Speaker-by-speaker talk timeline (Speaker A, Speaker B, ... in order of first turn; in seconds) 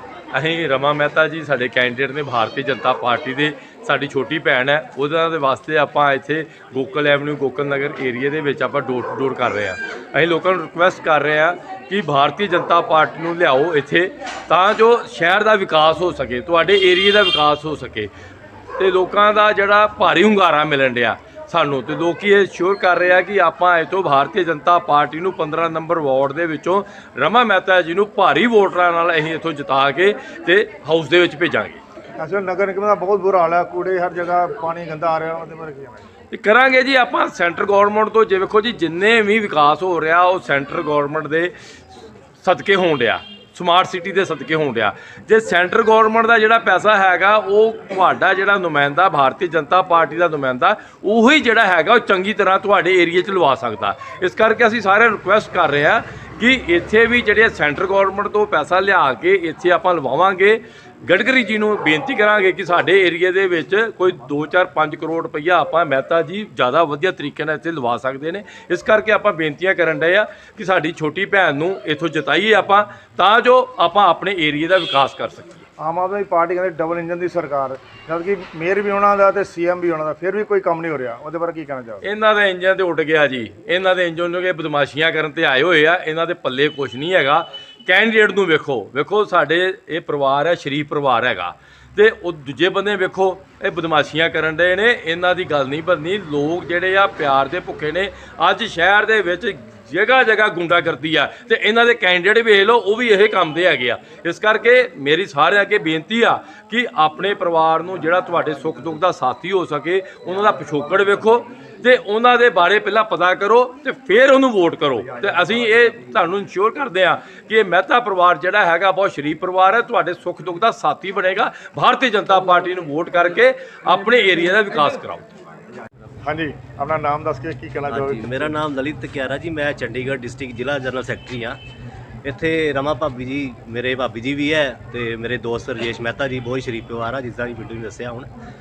Speaker A: 0.3-18.1, 18.8-31.8, 36.3-41.5, 42.4-75.7, 82.0-125.3
Speaker B: 32.2-36.0, 75.8-82.0, 126.2-128.5
Speaker C: 127.9-131.6, 132.2-138.3